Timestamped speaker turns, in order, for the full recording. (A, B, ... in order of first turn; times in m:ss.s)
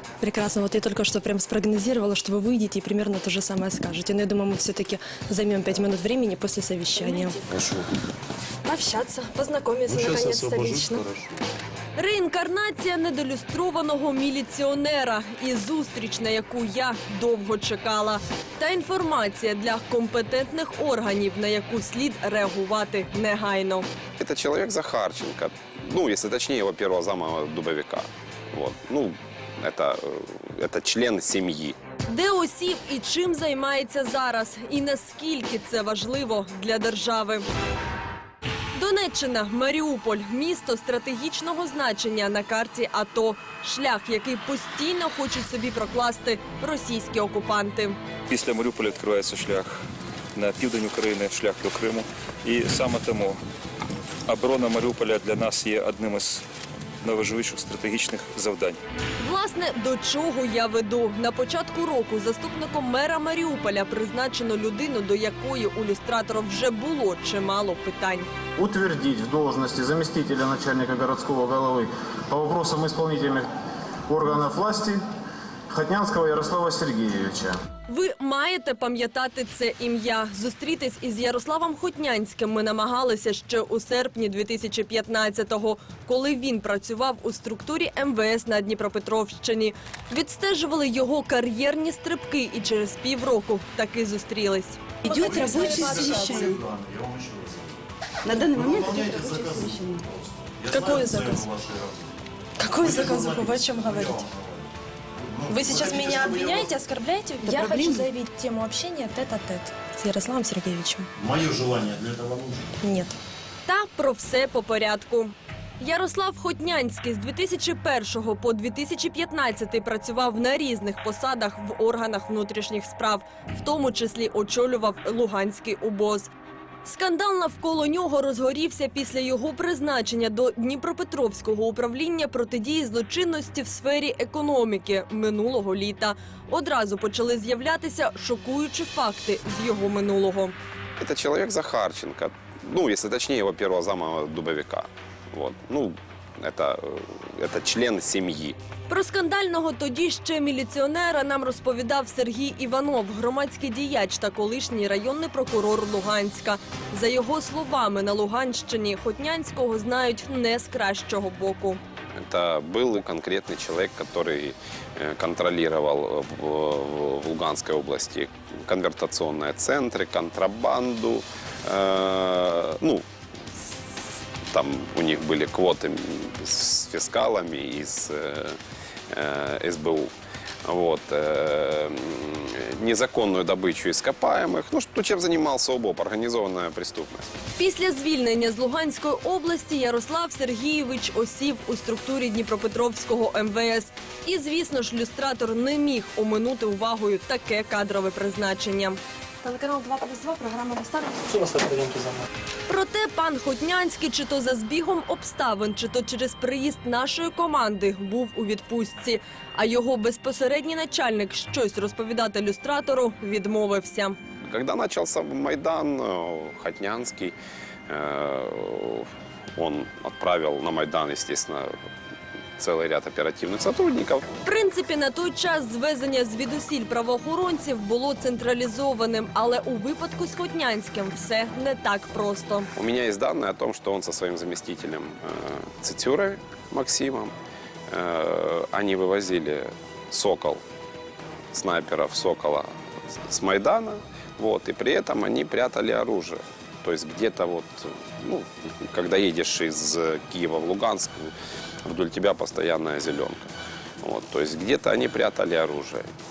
0:00.2-0:07.4 A
0:06.9-0:07.4 B
0:07.5-0:07.9 C
0:08.7-0:11.0 A
0:09.9-0:11.3 C
0:12.0-0:23.9 D
0:24.2-0:31.8 E
0:32.1-0:37.5 D
0:38.8-0:48.0 D
0:48.3-0:49.8 F
0:50.3-0:53.4 F
0:54.3-0:56.4 F
0:57.0-0:58.8 F
0:59.2-1:08.3 D
1:08.6-1:13.5 G
1:14.1-1:15.0 G
1:15.7-1:17.6 G
1:17.9-1:34.8 D
1:35.0-1:36.6 B
1:35.0-1:36.4 A
1:35.1-1:37.8 C
1:38.2-1:40.0 B
1:38.5-1:42.1 C
1:40.7-1:41.4 A
1:42.6-1:44.2 A
1:42.7-1:46.8 C
1:45.5-1:51.1 A
1:47.4-1:48.1 B
1:51.2-1:52.7 C
1:52.8-1:53.2 A
1:53.7-2:06.3 D
2:06.8-2:20.5 D
2:21.0-2:28.6 E
2:28.9-2:41.8 D
2:42.2-2:53.0 E
2:54.5-2:58.6 E
2:59.1-3:00.1 E
3:00.7-3:07.3 E
3:07.6-3:19.0 D
3:19.4-3:21.8 A
3:22.7-3:34.2 D
3:34.5-3:37.3 E
3:37.9-3:41.7 E
3:42.6-3:44.2 E
3:44.4-3:52.7 D
3:52.8-3:57.3 E
3:57.9-4:00.6 E
4:01.5-4:02.7 E
4:03.3-4:11.3 E
4:11.8-4:16.1 E